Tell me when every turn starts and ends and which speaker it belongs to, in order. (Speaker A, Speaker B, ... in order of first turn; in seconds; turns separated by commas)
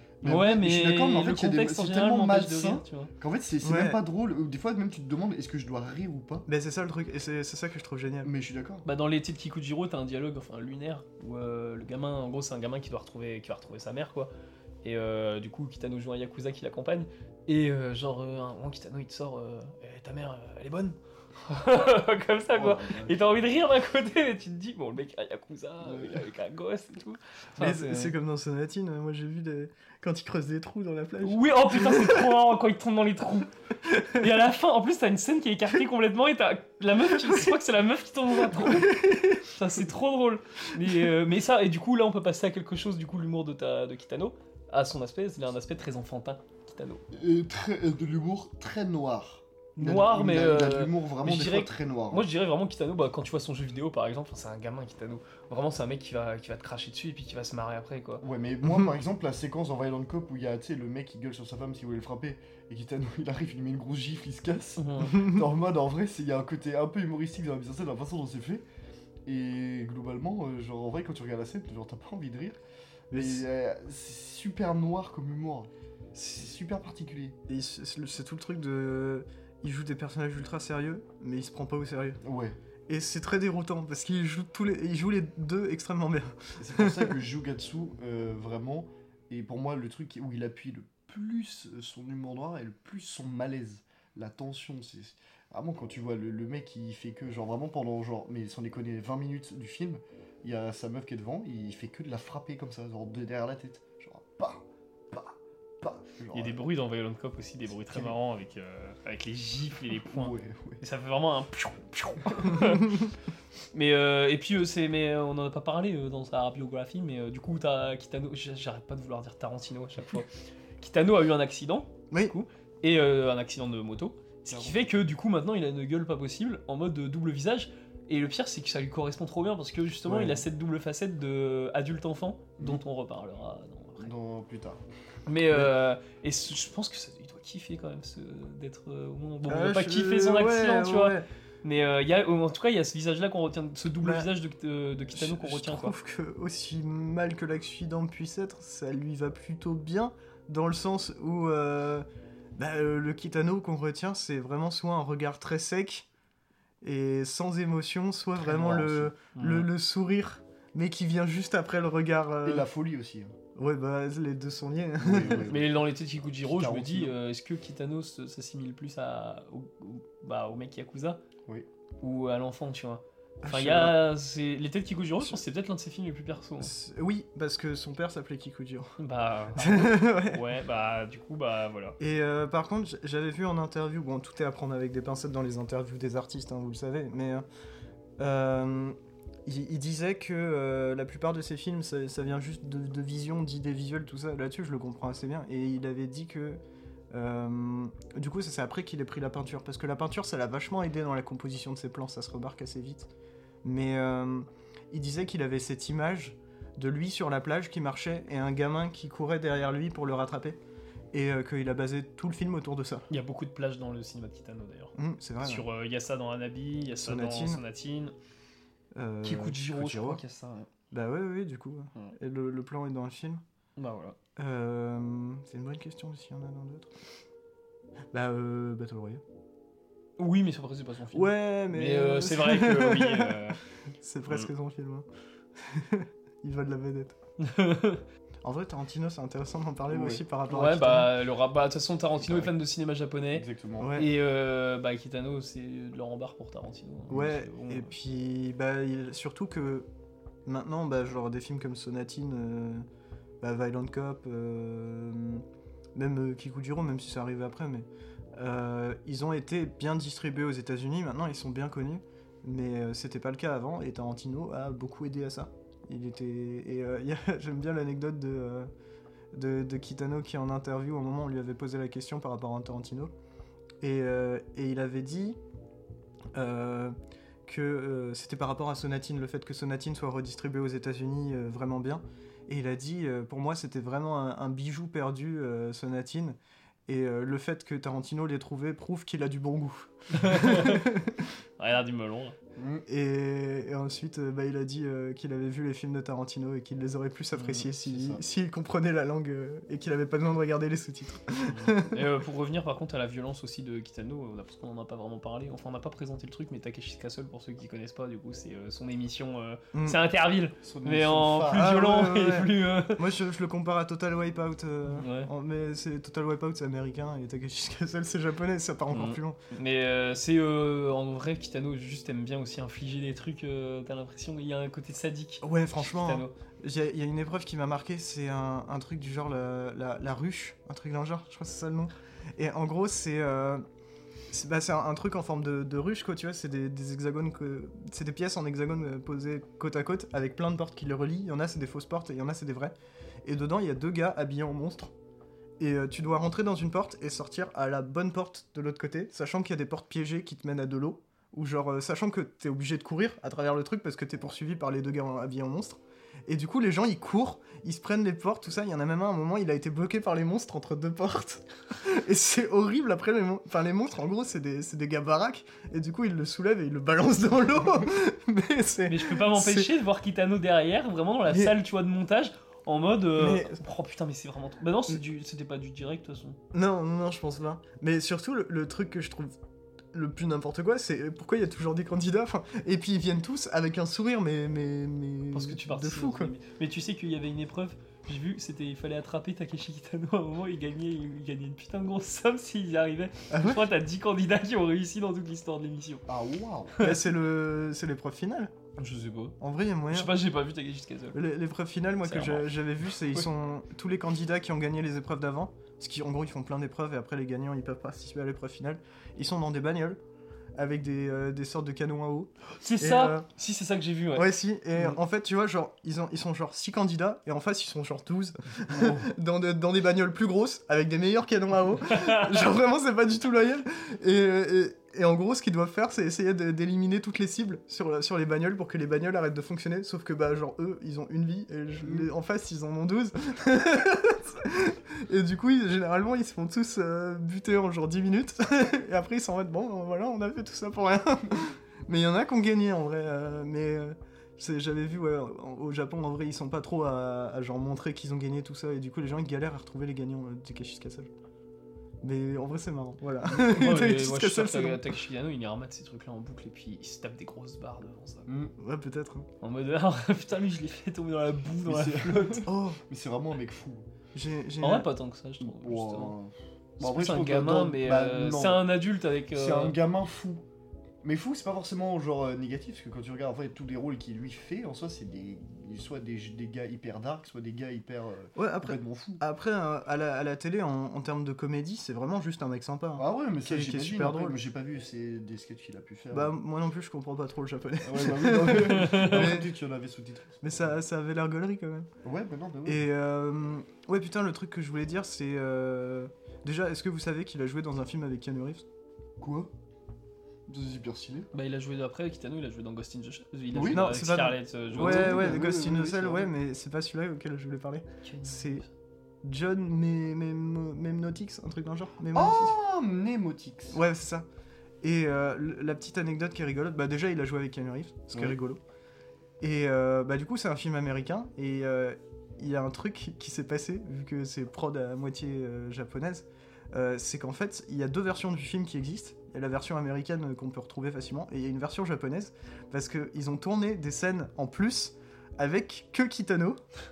Speaker A: 0.2-6.5, Speaker B: 0.2-3.1, Speaker C: 3.6-4.0, Speaker C: 6.5-8.3, Speaker A: 8.2-8.9, Speaker B: 8.8-14.3, Speaker B: 14.8-28.1, Speaker A: 22.5-23.1, Speaker A: 25.8-26.3, Speaker C: 27.6-32.3, Speaker B: 31.2-47.0, Speaker C: 38.5-39.5, Speaker A: 47.1-52.3, Speaker B: 49.8-58.2, Speaker A: 58.2-68.7, Speaker B: 64.8-65.3, Speaker A: 69.3-72.6, Speaker C: 73.1-73.5, Speaker A: 73.1-77.4, Speaker C: 77.5-82.2, Speaker A: 82.2-82.6, Speaker C: 82.9-87.2, Speaker A: 86.6-106.6, Speaker B: 106.3-113.1, Speaker A: 107.9-108.2, Speaker A: 110.1-110.8, Speaker B: 113.7-120.3, Speaker B: 120.8-134.1, Speaker A: 124.5-124.9, Speaker C: 130.1-130.4, Speaker A: 134.0-134.8, Speaker B: 135.3-145.9, Speaker C: 139.5-141.3, Speaker C: 144.0-144.3, Speaker C: 145.1-156.1, Speaker C: 156.8-162.7, Speaker A: 158.4-159.1, Speaker B: 159.3-159.7, Speaker A: 162.4-163.4, Speaker C: 163.6-165.5, Speaker A: 165.0-165.9, Speaker B: 165.4-171.2, Speaker A: 166.4-167.2, Speaker B: 172.0-176.7, Speaker C: 173.4-174.0, Speaker C: 176.6-179.0, Speaker B: 179.0-182.0, Speaker C: 179.6-180.4, Speaker C: 182.0-187.4, Speaker C: 188.2-196.6, Speaker C: 197.1-203.1, Speaker C: 203.6-210.6, Speaker C: 211.1-213.1, Speaker B: 213.1-218.1, Speaker C: 214.9-215.7, Speaker C: 216.9-217.6, Speaker C: 218.9-220.2, Speaker B: 219.2-220.7, Speaker C: 220.9-223.4, Speaker B: 223.8-224.2, Speaker C: 224.4-226.9, Speaker C: 228.1-229.2, Speaker B: 230.2-233.6, Speaker C: 231.1-233.4, Speaker C: 234.0-235.1, Speaker C: 235.6-237.2, Speaker B: 237.4-238.0, Speaker C: 238.4-241.1, Speaker A: 239.9-240.2, Speaker B: 240.5-247.9, Speaker A: 242.2-242.5, Speaker A: 243.3-243.9, Speaker C: 243.8-244.1, Speaker C: 247.1-249.9, Speaker C: 250.4-252.8, Speaker C: 253.4-255.4, Speaker C: 255.9-268.7, Speaker C: 269.3-273.1, Speaker C: 273.8-275.4, Speaker C: 276.3-276.9, Speaker C: 277.4-291.3, Speaker B: 290.1-290.9, Speaker B: 291.6-292.4, Speaker A: 292.6-292.9, Speaker C: 292.9-302.0, Speaker B: 297.4-297.6, Speaker A: 297.6-298.2, Speaker B: 301.5-313.0, Speaker C: 309.7-310.0, Speaker A: 310.6-311.7, Speaker C: 311.5-319.4, Speaker B: 314.9-315.3, Speaker B: 318.9-326.3, Speaker C: 325.4-333.6, Speaker C: 334.3-344.9, Speaker C: 345.6-369.7, Speaker B: 368.9-376.4, Speaker C: 371.3-371.6, Speaker C: 373.2-373.6, Speaker C: 376.5-379.4, Speaker C: 379.9-386.4, Speaker B: 385.3-396.1, Speaker C: 393.3-393.6, Speaker A: 396.1-396.9, Speaker C: 396.8-398.5, Speaker B: 398.8-399.4, Speaker C: 399.4-400.2, Speaker B: 399.9-401.2, Speaker C: 401.1-410.0, Speaker B: 402.0-402.5, Speaker C: 410.6-413.3, Speaker B: 412.6-415.0, Speaker C: 414.1-451.1, Speaker B: 421.9-422.4, Speaker C: 452.0-454.9, Speaker B: 453.2-458.3, Speaker A: 458.3-458.5, Speaker C: 458.6-459.3, Speaker B: 459.4-462.5, Speaker A: 461.6-463.9, Speaker C: 462.4-462.8, Speaker C: 464.1-464.9, Speaker B: 464.6-466.1, Speaker A: 465.4-468.7, Speaker B: 466.8-469.8, Speaker A: 469.3-470.4, Speaker A: 471.0-479.2, Speaker C: 478.4-484.4, Speaker A: 483.0-486.3, Speaker C: 486.1-489.5, Speaker A: 487.8-490.5, Speaker B: 488.6-489.3, Speaker C: 490.4-491.9, Speaker A: 492.0-492.9, Speaker C: 492.7-498.6, Speaker A: 499.2-499.5, Speaker A: 500.5-501.3, Speaker B: 501.3-505.4, Speaker A: 503.5-503.9, Speaker C: 503.6-508.6, Speaker A: 504.7-506.3, Speaker B: 508.0-508.7, Speaker C: 509.2-512.6, Speaker A: 512.1-513.8, Speaker C: 513.7-514.3, Speaker C: 514.8-518.6, Speaker C: 519.4-536.6